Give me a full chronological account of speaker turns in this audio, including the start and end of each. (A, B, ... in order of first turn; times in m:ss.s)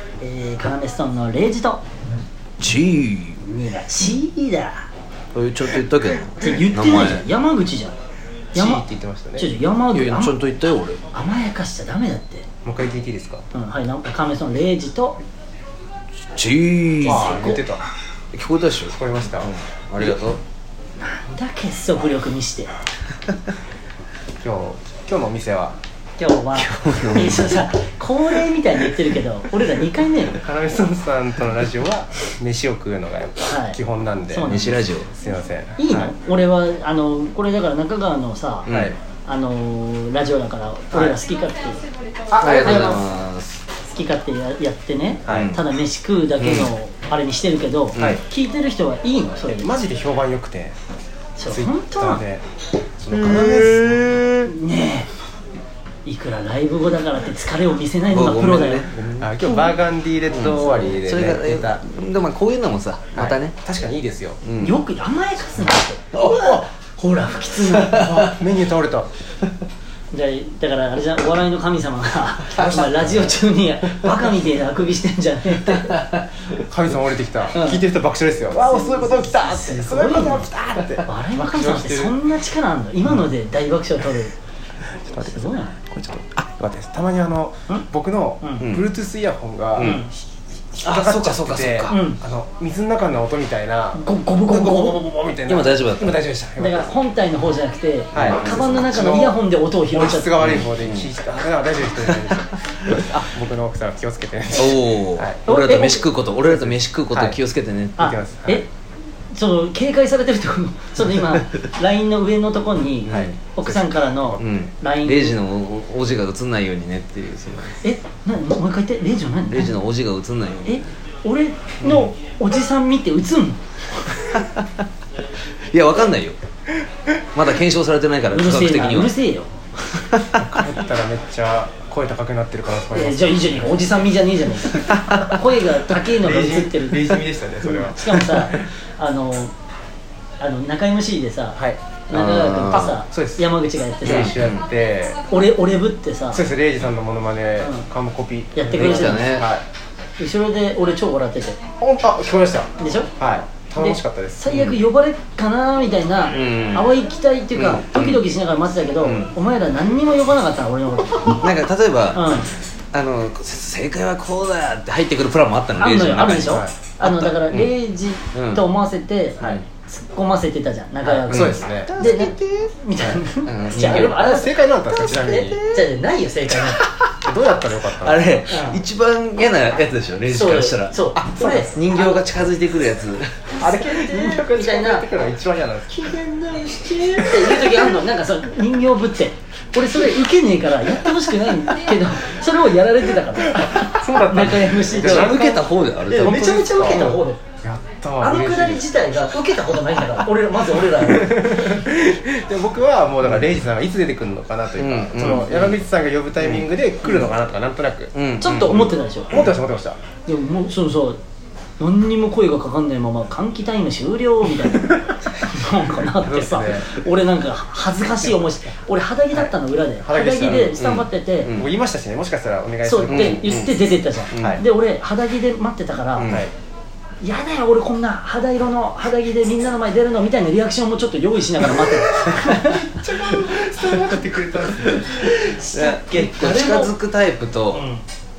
0:00.2-0:01.8 A
0:02.6-0:03.4 B
0:03.4-0:04.9 A
0:05.3-0:07.2 B
0:06.4-0:08.0 A
0:08.5-0:09.5 C
0:08.5-0:08.8 A
0:09.4-0:10.4 A
0:09.9-0:11.0 B
0:11.1-0:12.5 A
0:12.6-0:13.4 C
0:13.5-0:15.2 A
0:16.4-0:17.3 B
0:17.0-0:17.6 A
0:17.0-0:17.8 C
0:18.3-0:20.4 B
0:18.9-0:19.5 C
0:21.0-0:22.7 A
0:24.4-0:25.8 C
0:26.2-0:30.4 A
0:26.6-0:27.6 B
0:30.4-0:36.1 C
0:33.4-0:33.8 A
0:34.3-0:34.8 A
0:34.4-0:35.1 B
0:35.8-0:38.7 A
0:38.7-0:39.0 B
0:38.7-0:39.0 C
0:39.2-0:41.8 A
0:40.9-0:41.2 C
0:42.3-0:43.0 C
0:42.4-0:43.6 B
0:42.5-0:43.0 A
0:43.8-0:49.7 A
0:45.3-0:45.5 C
0:45.3-0:45.6 B
0:46.4-0:46.7 B
0:47.9-0:48.2 B
0:49.5-0:50.8 C
0:51.4-0:52.2 A
0:51.5-0:52.4 C
0:53.0-0:54.1 C
0:53.1-0:54.5 B
0:54.4-0:55.1 A
0:56.0-0:58.9 A
0:58.1-0:59.8 B
0:59.2-1:01.8 C
1:00.3-1:03.6 B
1:03.2-1:04.4 C
1:04.4-1:04.8 B
1:04.6-1:08.3 A
1:06.1-1:06.6 B
1:07.7-1:08.3 B
1:07.9-1:09.1 C
1:10.1-1:16.0 A
1:12.6-1:13.3 C
1:12.6-1:13.1 B
1:16.7-1:22.2 C
1:17.5-1:17.8 A
1:18.5-1:20.5 A
1:21.0-1:24.3 A
1:25.0-1:30.1 C
1:25.2-1:25.8 A
1:28.4-1:28.7 A
1:28.6-1:28.9 B
1:29.8-1:30.0 B
1:29.8-1:30.1 A
1:30.7-1:36.9 C
1:30.8-1:32.0 B
1:31.9-1:32.2 A
1:34.0-1:35.0 A
1:35.5-1:36.2 B
1:36.6-1:40.3 A
1:38.1-1:45.4 C
1:40.4-1:41.1 B
1:42.1-1:43.2 B
1:44.6-1:48.0 B
1:45.4-1:46.0 A
1:46.4-1:47.4 C
1:48.0-1:48.7 A
1:48.0-1:48.6 C
1:49.3-1:55.4 A
1:53.1-1:53.4 B
1:53.1-1:54.5 C
1:54.4-1:57.8 B
1:57.8-1:59.8 A
1:59.5-2:00.8 B
2:00.6-2:03.6 A
2:01.8-2:02.1 B
2:04.4-2:04.6 B
2:05.7-2:06.4 B
2:07.3-2:09.2 B
2:08.3-2:09.6 A
2:10.2-2:10.4 B
2:10.4-2:13.8 C
2:12.9-2:17.1 A
2:14.9-2:15.3 B
2:16.0-2:18.4 C
2:17.7-2:19.5 A
2:20.4-2:24.4 A
2:21.6-2:21.8 C
2:22.1-2:23.0 B
2:22.7-2:23.4 C
2:24.0-2:25.2 C
2:24.0-2:24.6 B
2:25.3-2:26.4 A
2:26.3-2:29.6 C
2:27.6-2:27.9 A
2:28.6-2:29.4 A
2:28.7-2:29.5 B
2:30.2-2:31.6 A
2:31.8-2:34.4 C
2:32.8-2:33.1 A
2:33.8-2:41.5 A
2:34.5-2:34.8 B
2:36.3-2:36.9 B
2:37.6-2:38.2 B
2:39.0-2:39.3 B
2:41.4-2:42.4 B
2:42.1-2:42.5 A
2:42.9-2:47.7 B
2:45.8-2:56.8 A
2:46.4-2:46.8 C
2:48.3-2:48.6 B
2:51.0-2:51.9 C
2:51.2-2:52.7 B
2:53.4-2:54.2 B
2:53.8-2:55.6 C
2:56.7-2:57.1 B
2:57.2-2:58.4 C
2:57.9-3:03.3 B
2:58.5-2:58.8 A
3:00.3-3:02.1 A
3:03.6-3:05.1 A
3:03.6-3:06.0 C
3:05.9-3:15.4 A
3:07.2-3:08.0 C
3:13.4-3:18.8 C
3:14.4-3:17.1 B
3:16.1-3:17.4 A
3:18.2-3:21.6 A
3:20.9-3:30.0 C
3:24.8-3:25.8 B
3:26.4-3:26.7 B
3:28.1-3:28.9 B
3:28.4-3:29.5 A
3:30.3-3:31.2 A
3:31.8-3:41.6 A
3:36.0-3:36.9 C
3:39.3-3:40.8 C
3:40.5-3:41.7 B
3:41.6-3:44.6 C
3:42.8-3:46.3 A
3:43.0-3:43.7 B
3:44.3-3:44.6 B
3:46.2-3:46.4 B
3:47.2-3:53.0 A
3:52.7-3:55.3 C
3:55.0-3:57.8 B
3:55.2-3:56.9 A
3:57.7-3:58.0 A